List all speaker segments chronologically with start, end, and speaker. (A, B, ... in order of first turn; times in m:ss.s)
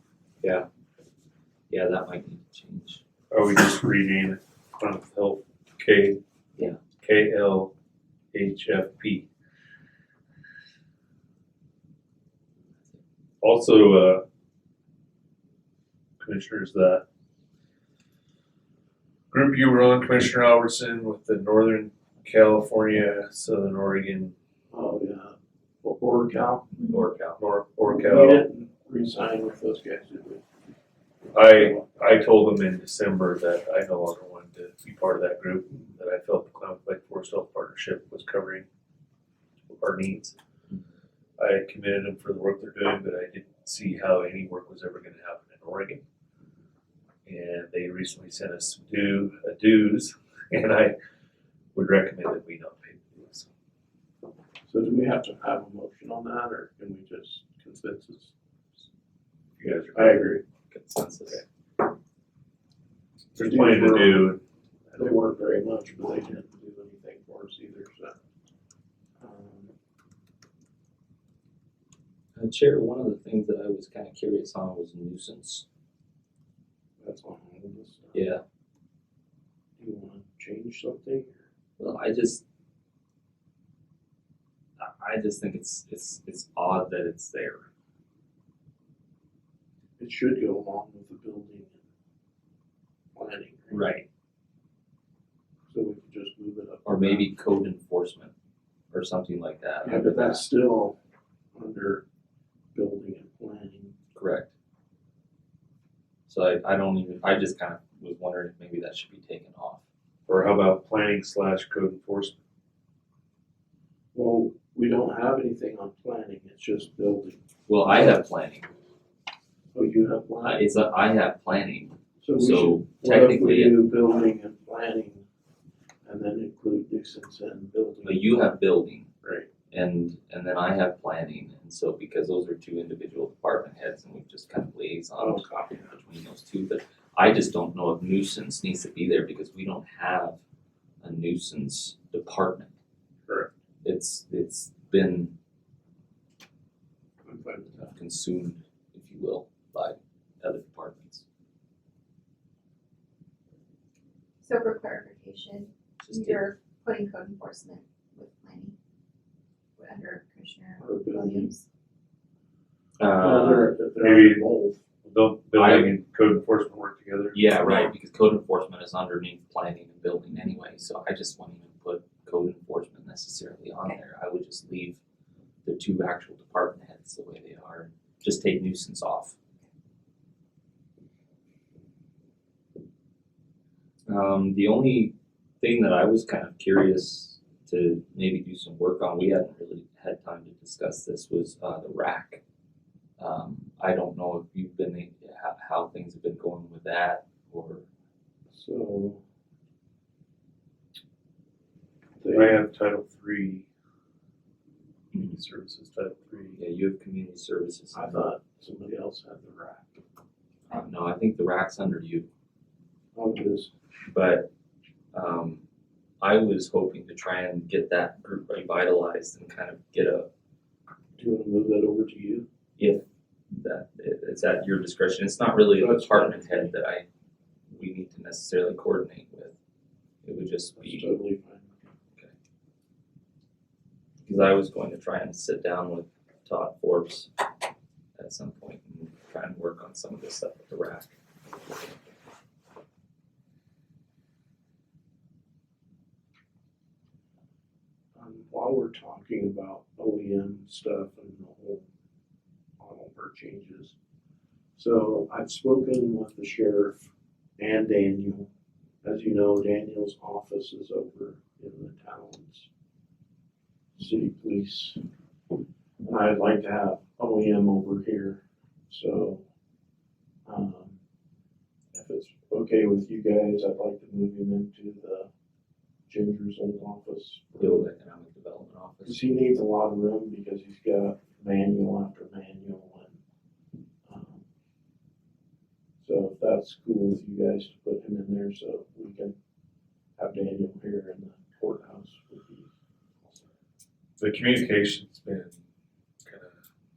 0:01.7-0:03.0 A
0:03.3-0:06.2 B
0:07.0-0:07.7 B
0:08.3-0:09.3 B
0:13.4-0:14.2 B
0:16.2-0:17.0 B
0:19.3-0:24.3 B
0:24.7-0:26.7 C
0:26.8-0:27.4 A
0:26.8-0:27.0 D
0:27.4-0:28.4 B
0:27.8-0:30.4 C
0:31.3-0:38.7 B
0:31.5-0:31.8 C
0:39.7-0:40.4 B
0:41.4-0:46.0 B
0:47.2-0:51.0 B
0:51.8-0:53.5 B
0:54.7-0:58.3 C
0:59.6-1:00.4 B
0:59.9-1:00.4 C
1:00.7-1:01.4 A
1:03.4-1:04.4 C
1:03.4-1:04.4 B
1:05.0-1:08.2 C
1:09.2-1:09.7 C
1:12.4-1:15.6 A
1:17.0-1:18.4 C
1:18.1-1:18.4 A
1:19.8-1:21.5 C
1:21.8-1:22.4 A
1:24.8-1:27.7 A
1:30.0-1:31.8 C
1:33.2-1:33.9 C
1:33.7-1:34.1 A
1:35.7-1:37.3 C
1:36.8-1:38.3 A
1:38.9-1:40.4 A
1:39.8-1:41.0 C
1:41.6-1:42.0 C
1:42.8-1:43.9 C
1:44.2-1:44.5 A
1:46.3-1:49.8 A
1:50.3-1:52.4 B
1:54.1-1:57.4 C
1:57.7-1:58.7 A
1:59.7-2:00.7 C
2:00.4-2:03.8 A
2:02.2-2:05.2 C
2:06.0-2:08.5 C
2:08.0-2:09.1 A
2:09.2-2:09.5 C
2:09.7-2:20.4 A
2:15.2-2:16.0 C
2:21.0-2:22.7 A
2:23.8-2:25.3 A
2:27.2-2:28.0 C
2:27.9-2:31.2 A
2:34.4-2:38.8 D
2:36.0-2:36.5 A
2:39.8-2:41.7 D
2:40.8-2:41.5 C
2:43.0-2:43.7 A
2:43.2-2:44.8 C
2:44.0-2:44.4 B
2:45.0-2:47.4 B
2:45.6-2:45.9 A
2:47.3-2:55.0 A
2:55.6-2:59.4 A
3:04.1-3:12.4 A
3:13.2-3:17.8 A
3:18.5-3:19.2 C
3:22.2-3:22.6 C
3:22.3-3:23.7 B
3:25.1-3:26.6 B
3:26.6-3:28.2 A
3:27.9-3:29.9 C
3:30.7-3:32.3 A
3:33.1-3:33.7 C
3:34.1-3:34.5 A
3:35.1-3:35.6 A
3:36.2-3:40.3 A
3:41.2-3:42.5 C
3:42.8-3:47.1 A
3:45.7-3:46.7 C
3:47.7-3:49.6 A
3:50.2-3:51.1 A
3:50.8-3:51.8 C
3:54.2-3:57.3 A
3:58.2-4:01.2 A
4:08.2-4:11.9 C
4:12.8-4:14.0 C
4:14.8-4:17.1 C
4:17.6-4:18.5 C
4:19.0-4:22.7 C
4:24.0-4:25.0 C
4:26.0-4:29.4 C
4:30.4-4:31.0 C
4:31.9-4:35.3 C
4:36.1-4:37.9 C
4:37.6-4:39.2 A
4:39.0-4:43.2 C
4:44.1-4:44.4 C
4:46.0-4:49.4 C
4:50.2-4:52.7 C
4:53.2-4:53.5 C
4:54.2-4:55.6 B
4:56.2-4:56.5 B